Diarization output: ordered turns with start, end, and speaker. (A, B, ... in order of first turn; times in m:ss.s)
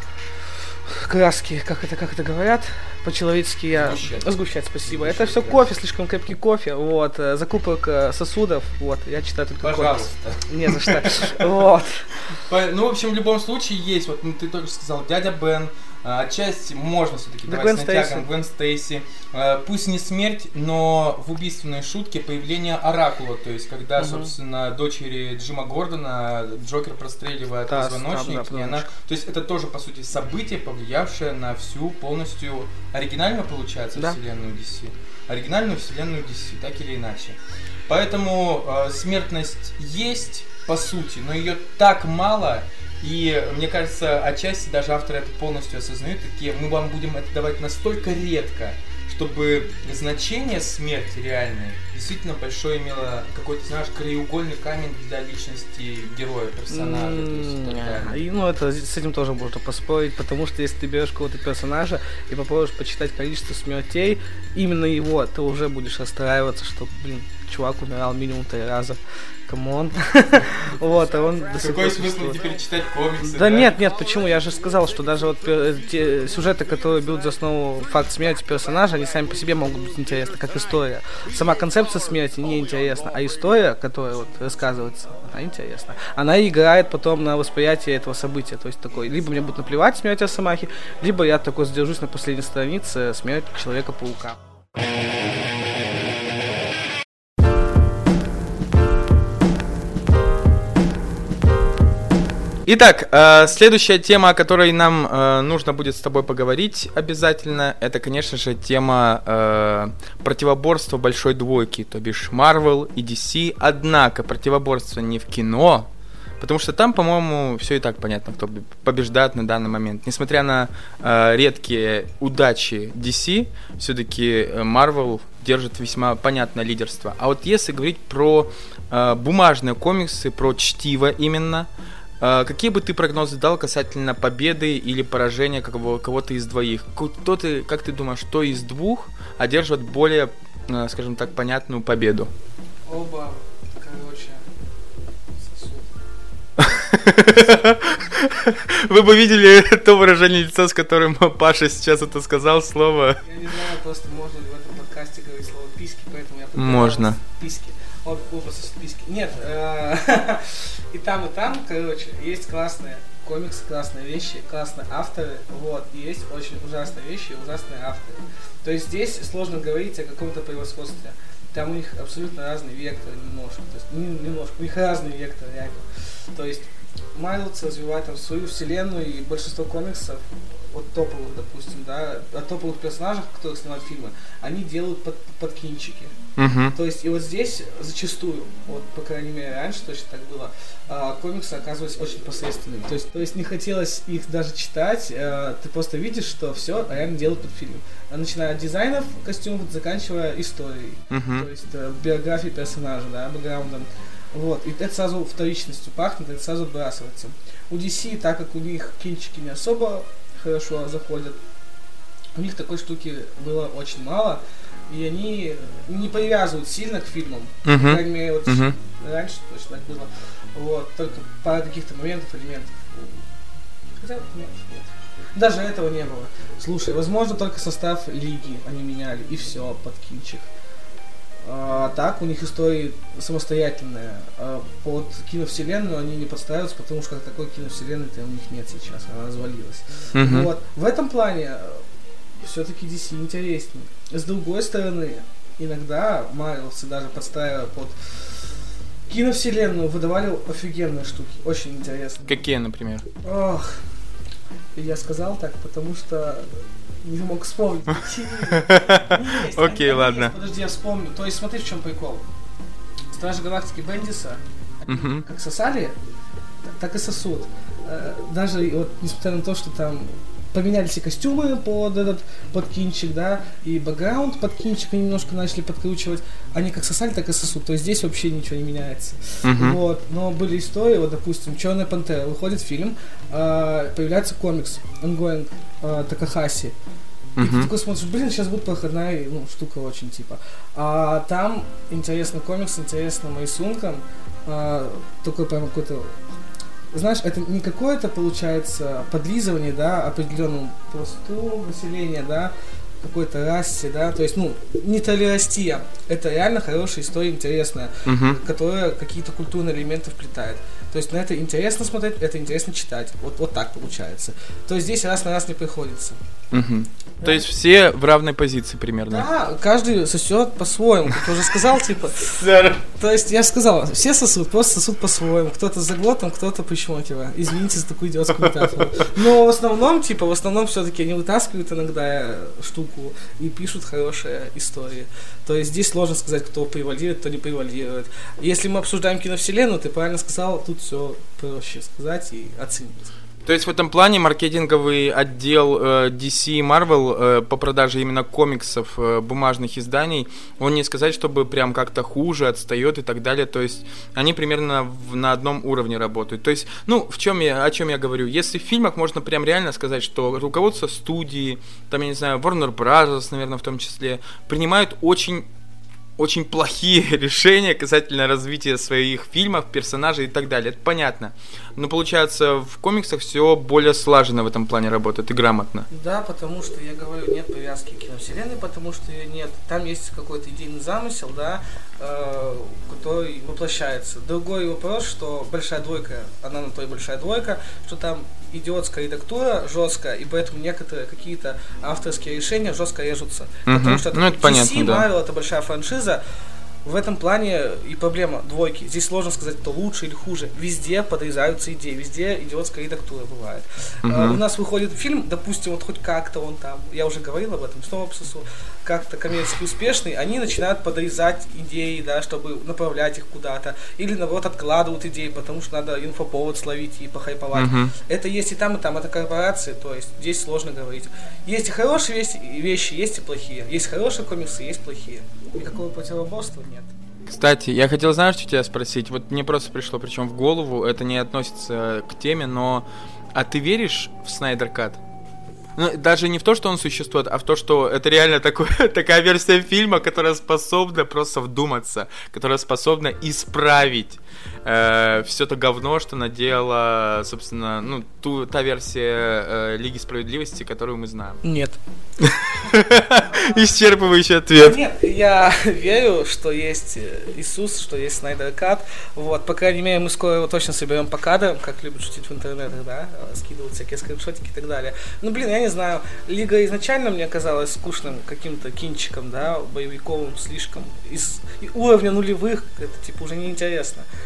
0:00.9-0:12.1 A
0:03.7-0:05.7 B
0:09.6-0:11.5 B
0:12.3-0:58.2 B
0:17.5-0:18.3 A
0:24.0-0:24.3 A
0:27.7-0:28.9 A
0:56.7-1:12.4 A
1:11.5-1:13.8 B
1:13.2-1:34.4 A
1:42.7-1:55.9 B
1:56.4-2:11.7 B
2:12.2-2:22.3 B
2:22.9-2:24.5 A
2:25.4-2:26.0 A
2:26.6-2:33.2 B
2:33.2-3:06.2 A
2:36.6-2:37.2 B
3:06.4-3:06.8 B
3:06.7-3:31.4 A
3:21.1-3:21.5 B
3:32.4-3:43.2 A
3:37.6-3:38.8 B
3:44.0-3:50.5 A
3:51.4-4:01.8 A
4:00.1-4:00.5 B
4:02.4-4:08.1 A
4:09.1-4:12.3 A
4:12.2-4:13.1 B
4:13.2-4:13.9 A
4:14.8-4:22.2 A
4:18.4-4:20.4 B
4:23.1-4:26.0 A
4:24.9-4:25.3 B
4:26.6-4:46.8 A
4:39.4-4:39.8 B
4:47.4-4:47.7 B
4:47.4-4:56.2 A
4:56.9-5:16.2 A
5:08.0-5:08.4 B
5:16.5-5:19.3 B
5:17.2-5:17.5 A
5:19.1-5:22.4 A
5:22.2-5:22.8 B
5:23.0-5:43.1 A
5:28.4-5:28.9 B
5:43.4-6:05.5 B
6:06.2-6:15.9 B
6:15.9-6:36.2 A
6:33.7-6:35.1 B
6:36.8-7:06.9 A
6:44.0-6:44.4 B
6:57.5-6:58.0 B
7:07.3-7:15.0 B
7:15.8-7:31.4 B
7:31.4-7:31.8 A
7:32.2-7:34.8 B
7:34.6-7:54.1 A